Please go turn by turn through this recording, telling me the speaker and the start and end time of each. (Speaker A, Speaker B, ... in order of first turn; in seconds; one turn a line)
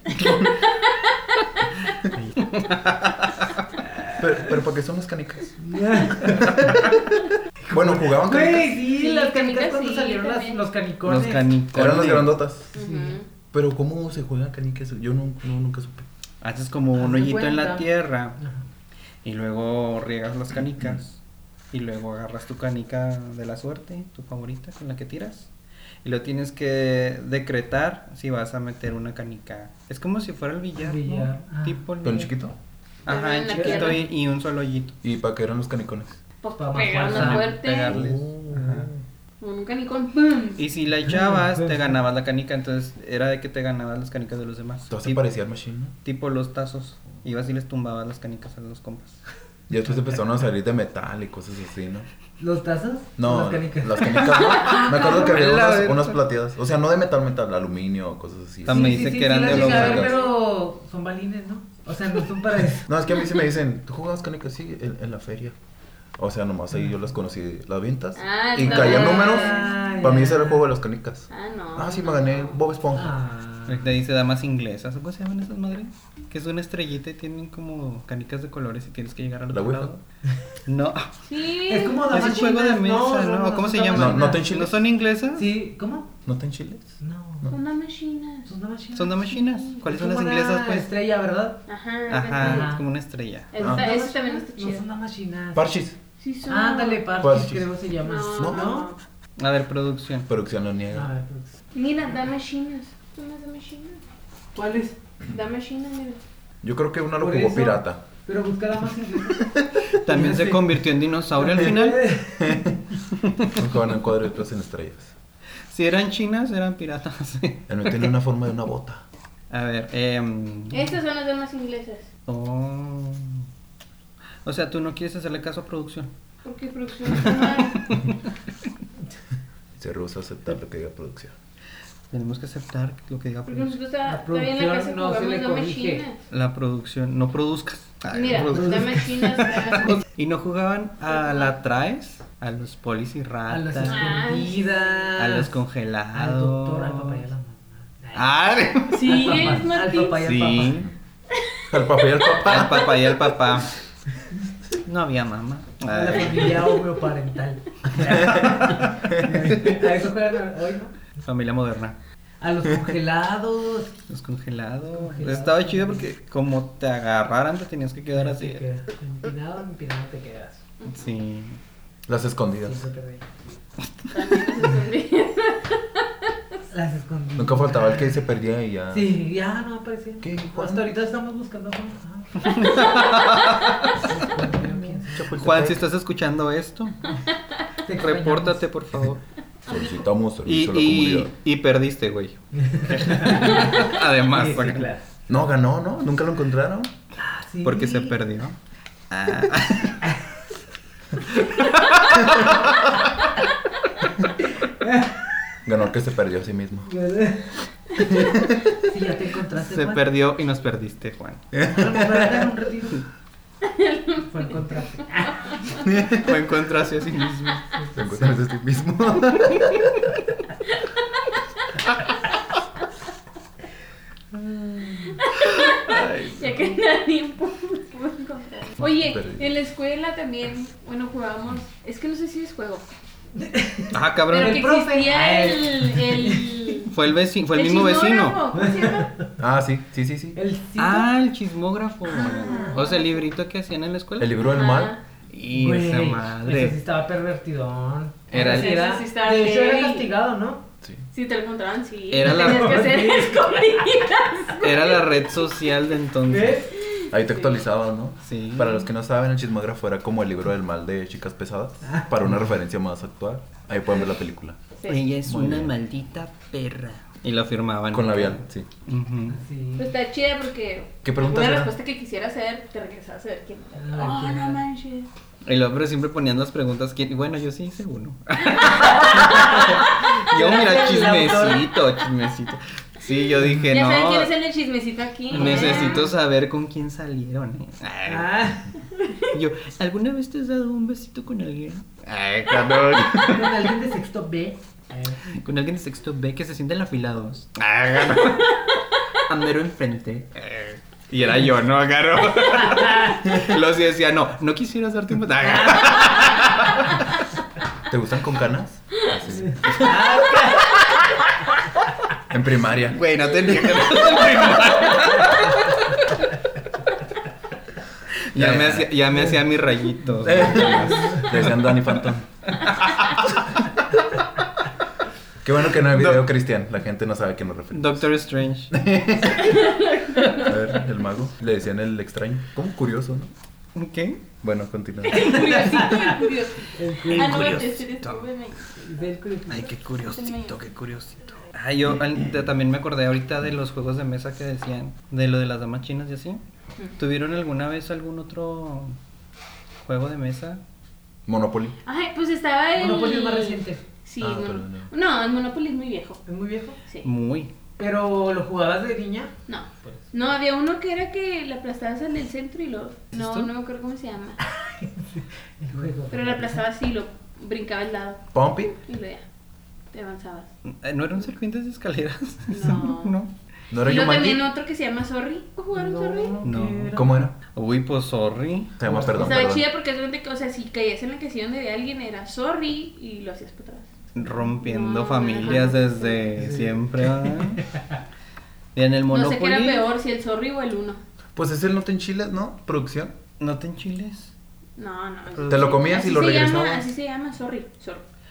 Speaker A: 0.1-0.5
Speaker B: 2.1-3.5
Speaker A: 4.1-7.1
Speaker C: 5.6-6.9
Speaker C: 7.6-11.4
Speaker A: 7.7-8.8
Speaker D: 8.8-10.6
Speaker B: 11.0-12.4
Speaker A: 11.7-12.7
Speaker C: 12.7-13.2
Speaker D: 12.7-13.2
Speaker A: 13.5-16.1
Speaker B: 16.4-18.4
Speaker C: 16.9-17.9
Speaker B: 19.2-21.2
Speaker B: 21.7-25.5
Speaker B: 26.0-32.3
Speaker C: 30.8-32.3
Speaker A: 32.0-32.5
Speaker B: 33.0-35.0
Speaker D: 33.1-34.0
Speaker C: 33.5-34.0
Speaker A: 35.0-36.2
Speaker D: 36.4-38.0
Speaker C: 36.6-37.5
Speaker B: 37.0-38.9
Speaker A: 37.9-39.0
Speaker D: 39.4-40.6
Speaker B: 40.6-45.2
Speaker C: 41.0-41.9
Speaker A: 44.9-45.9
Speaker B: 46.0-49.2
Speaker A: 49.7-52.1
Speaker C: 52.4-55.2
Speaker A: 53.2-60.1
Speaker B: 54.2-56.2
Speaker B: 58.6-60.2
Speaker C: 58.7-62.9
Speaker D: 59.7-60.3
Speaker A: 62.8-65.5
Speaker A: 66.2-73.1
Speaker D: 68.2-69.7
Speaker C: 68.7-70.6
Speaker D: 71.3-72.6
Speaker C: 72.9-73.9
Speaker B: 73.7-80.0
Speaker A: 79.5-79.9
Speaker B: 80.7-81.1
Speaker D: 81.3-82.4
Speaker C: 81.7-84.5
Speaker B: 82.1-85.5
Speaker A: 83.9-84.8
Speaker C: 85.3-86.1
Speaker A: 86.2-87.6
Speaker C: 87.0-87.5
Speaker D: 87.5-88.5
Speaker C: 88.5-91.6
Speaker B: 88.9-90.9
Speaker D: 89.4-89.7
Speaker D: 91.7-92.7
Speaker B: 92.1-93.5
Speaker C: 92.3-92.8
Speaker D: 93.5-94.8
Speaker C: 93.5-95.6
Speaker A: 93.6-93.8
Speaker A: 95.5-96.0
Speaker D: 96.2-97.0
Speaker C: 96.5-98.9
Speaker A: 97.2-97.7
Speaker D: 98.0-99.0
Speaker A: 98.3-98.7
Speaker B: 99.4-100.3
Speaker A: 100.3-101.1
Speaker C: 100.9-101.6
Speaker D: 101.7-104.0
Speaker C: 104.5-105.0
Speaker D: 105.3-106.2
Speaker A: 106.6-108.0
Speaker C: 107.2-110.8
Speaker A: 109.4-109.7
Speaker B: 109.9-112.2
Speaker C: 111.3-112.7
Speaker A: 112.4-112.7
Speaker B: 113.2-113.6
Speaker A: 113.5-115.1
Speaker B: 115.7-118.1
Speaker A: 117.7-119.0
Speaker B: 119.5-120.9
Speaker D: 120.7-122.1
Speaker B: 122.3-123.5
Speaker B: 124.4-126.1
Speaker D: 126.4-128.0
Speaker B: 127.2-128.1
Speaker A: 129.8-131.3
Speaker B: 132.1-133.8
Speaker D: 133.4-136.2
Speaker C: 134.0-136.0
Speaker B: 136.3-144.2
Speaker D: 138.1-140.0
Speaker C: 138.4-140.0
Speaker D: 141.1-141.5
Speaker C: 143.5-145.5
Speaker D: 143.8-145.0
Speaker B: 145.2-147.2
Speaker C: 146.1-148.2
Speaker B: 148.1-149.6
Speaker D: 148.9-150.3
Speaker C: 149.0-150.8
Speaker B: 150.2-150.9
Speaker A: 150.5-150.9
Speaker A: 151.7-153.1
Speaker B: 152.4-153.7
Speaker B: 154.8-156.7
Speaker C: 155.9-160.9
Speaker B: 161.2-162.0
Speaker C: 162.4-163.9
Speaker B: 164.1-168.6
Speaker C: 164.9-166.0
Speaker C: 168.1-170.6
Speaker B: 170.9-171.6
Speaker A: 172.1-172.8
Speaker C: 172.6-173.4
Speaker D: 174.1-176.6
Speaker C: 176.7-178.2
Speaker A: 177.3-179.2
Speaker C: 178.9-182.7
Speaker A: 180.2-180.9
Speaker B: 182.4-183.9
Speaker C: 184.0-185.3
Speaker A: 185.1-185.8
Speaker B: 185.2-187.0
Speaker C: 187.8-188.7
Speaker B: 188.0-189.2
Speaker A: 189.7-191.3
Speaker D: 189.7-190.0
Speaker B: 190.4-194.9
Speaker C: 192.6-195.0
Speaker A: 195.3-196.9
Speaker C: 197.2-198.1
Speaker B: 197.6-198.6
Speaker B: 199.1-200.1
Speaker B: 201.4-202.5
Speaker C: 204.6-205.3
Speaker A: 205.6-206.9
Speaker C: 206.9-210.0
Speaker A: 208.0-208.8
Speaker B: 209.6-211.5
Speaker A: 211.5-212.3
Speaker C: 211.6-213.0
Speaker D: 213.6-215.9
Speaker C: 214.3-215.7
Speaker A: 215.8-216.3
Speaker B: 216.1-217.7
Speaker C: 217.8-218.1
Speaker A: 217.9-219.9
Speaker C: 224.3-225.2
Speaker D: 225.2-232.8
Speaker B: 225.7-226.5
Speaker A: 228.8-229.5
Speaker C: 233.3-236.8
Speaker B: 233.9-234.7
Speaker D: 234.3-236.9
Speaker B: 236.9-238.4
Speaker D: 237.5-239.1
Speaker C: 238.5-239.3
Speaker A: 239.4-240.4
Speaker C: 240.3-241.1
Speaker B: 240.8-244.4
Speaker C: 242.1-242.8
Speaker D: 242.1-243.2
Speaker A: 244.2-244.9
Speaker D: 244.5-245.0
Speaker B: 245.3-246.8
Speaker C: 245.5-250.6
Speaker D: 248.3-250.1
Speaker B: 248.3-248.7
Speaker D: 251.1-255.2
Speaker B: 252.1-252.9
Speaker C: 252.2-254.0
Speaker B: 254.6-256.6
Speaker C: 256.2-256.7
Speaker D: 256.7-257.5
Speaker A: 257.1-264.6
Speaker B: 258.2-258.8
Speaker B: 264.9-269.4
Speaker A: 265.2-265.7
Speaker A: 267.9-268.7
Speaker C: 269.3-269.9
Speaker D: 269.8-275.1
Speaker A: 271.0-271.7
Speaker C: 273.8-274.6
Speaker B: 275.4-284.3
Speaker C: 278.7-281.6
Speaker D: 283.7-286.1
Speaker B: 285.3-288.5
Speaker C: 285.3-286.1
Speaker C: 288.1-288.8
Speaker B: 289.2-293.7
Speaker C: 293.2-295.2
Speaker B: 295.3-298.7
Speaker B: 299.2-306.9
Speaker C: 302.7-303.2
Speaker C: 305.5-306.4
Speaker A: 307.9-309.8
Speaker C: 309.4-310.7
Speaker B: 309.7-311.3
Speaker A: 312.3-313.0
Speaker B: 312.8-316.0
Speaker B: 318.3-321.6
Speaker A: 318.3-319.0
Speaker A: 320.2-322.6
Speaker C: 320.9-321.2
Speaker B: 322.6-322.9
Speaker A: 325.4-328.2
Speaker B: 327.7-328.8
Speaker A: 328.7-333.3
Speaker D: 329.3-330.6
Speaker B: 333.7-334.2
Speaker A: 334.4-335.6
Speaker D: 335.0-338.8
Speaker C: 335.7-337.6
Speaker B: 337.1-338.2
Speaker C: 338.8-339.7
Speaker B: 339.5-346.4
Speaker D: 340.1-340.6
Speaker B: 347.0-348.9
Speaker B: 349.8-350.6
Speaker A: 351.3-351.8
Speaker D: 351.8-356.2
Speaker C: 352.8-353.8
Speaker A: 354.2-354.9
Speaker C: 356.2-356.8
Speaker B: 357.0-357.5
Speaker C: 357.8-359.3
Speaker D: 359.5-364.4
Speaker B: 363.1-363.5
Speaker C: 364.4-366.6
Speaker D: 366.1-369.2
Speaker A: 368.3-368.7
Speaker D: 369.9-370.5
Speaker B: 370.6-373.3
Speaker D: 372.5-373.1
Speaker A: 373.7-374.4
Speaker D: 373.8-376.4
Speaker C: 375.7-377.3
Speaker B: 376.4-378.8
Speaker A: 376.9-377.3
Speaker A: 378.8-379.6
Speaker C: 378.8-379.3
Speaker D: 379.1-383.9
Speaker B: 384.1-387.7
Speaker D: 384.4-386.2
Speaker C: 386.4-387.8
Speaker B: 388.7-389.9
Speaker D: 389.1-391.0
Speaker A: 391.3-393.1
Speaker B: 393.4-394.3
Speaker D: 394.8-398.0
Speaker B: 395.3-395.9
Speaker A: 395.4-396.9